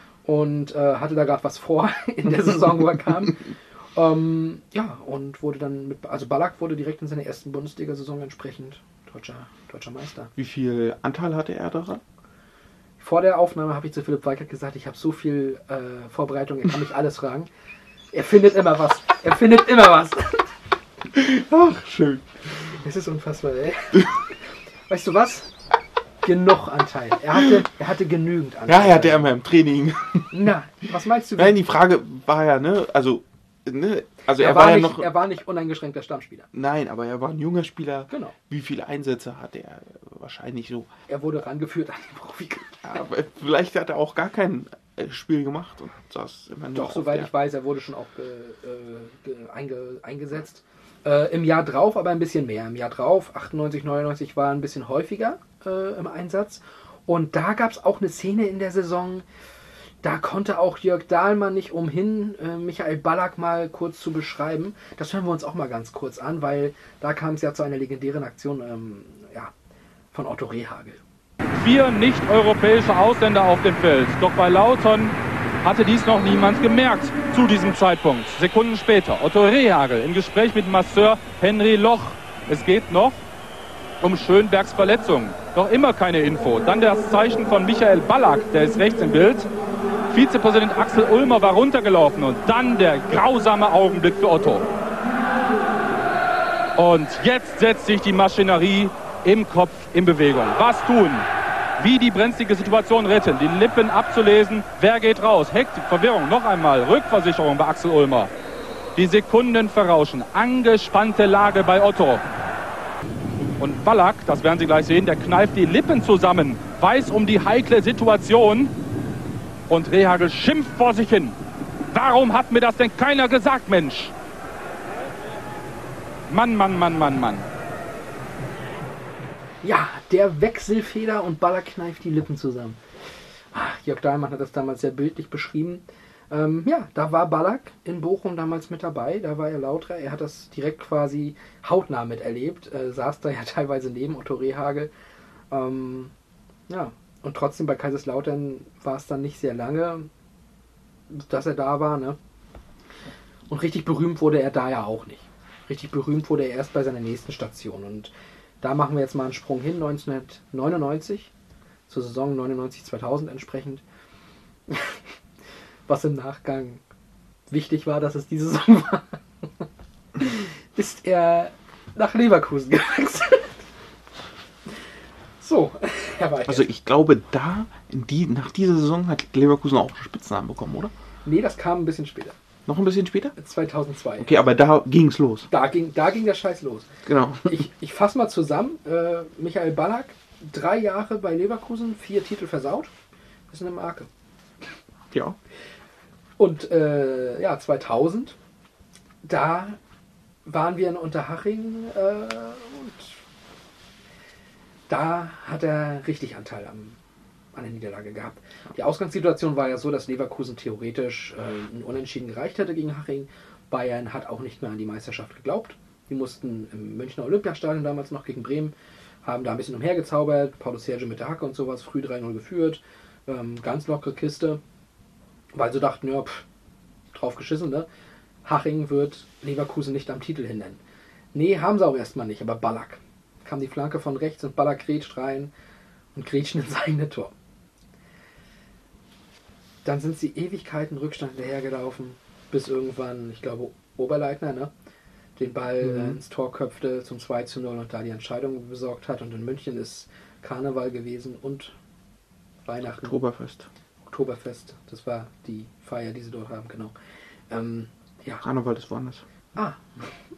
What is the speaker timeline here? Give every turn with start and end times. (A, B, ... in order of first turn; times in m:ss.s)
0:00.2-0:10.3 A
0:10.4-0:12.0 B
0:13.0-0:17.5 A
0:18.1-0:20.5 A
0:21.1-0:22.3 B
0:22.6-0:25.5 A
0:26.2-0:29.3 A
0:28.7-0:30.4 B
0:30.3-0:31.6 A
0:31.4-0:35.1 B
0:34.3-0:36.5 A
0:36.5-0:40.9 B
0:38.1-0:38.3 A
0:41.1-0:43.0 A
0:42.8-0:47.3 B
0:46.7-0:59.2 A
1:00.0-1:09.5 A
1:10.1-1:11.0 A
1:11.6-1:23.2 C
1:24.0-1:29.5 C
1:30.1-1:34.7 C
1:36.8-1:48.3 C
1:49.0-1:52.2 C
1:53.6-1:58.7 C
1:59.7-2:01.4 C
2:01.9-2:04.1 C
2:06.3-2:07.5 C
2:09.6-2:12.8 A
2:13.5-2:24.9 A
2:25.5-2:26.1 A
2:26.7-2:30.1 A
2:31.1-2:32.2 A
2:33.5-2:41.3 A
2:41.9-2:43.8 A
2:44.7-2:45.1 A
2:45.9-2:46.8 A
2:47.5-2:49.6 A
2:50.2-2:53.6 A
2:55.4-2:56.7 A
2:56.4-3:00.9 B
3:01.2-3:02.4 A
3:02.7-3:03.3 B
3:03.4-3:04.4 A
3:04.2-3:05.5 B
3:05.5-3:06.9 A
3:07.0-3:07.6 B
3:07.4-3:12.9 A
3:13.5-3:14.1 A
3:15.1-3:15.4 B
3:16.4-3:18.4 A
3:19.2-3:19.8 A
3:20.4-3:23.2 A
3:24.9-3:27.0 A
3:27.5-3:44.6 A
3:45.5-3:46.4 A
3:47.1-3:47.9 A
3:48.4-3:50.8 A
3:51.3-3:55.5 A
3:56.1-3:57.3 A
3:59.8-4:04.7 A
4:05.4-4:11.8 A
4:05.8-4:06.2 B
4:12.6-4:13.2 A
4:13.0-4:13.7 B
4:14.0-4:16.9 A
4:17.5-4:18.4 A
4:18.4-4:19.2 B
4:19.5-4:20.1 A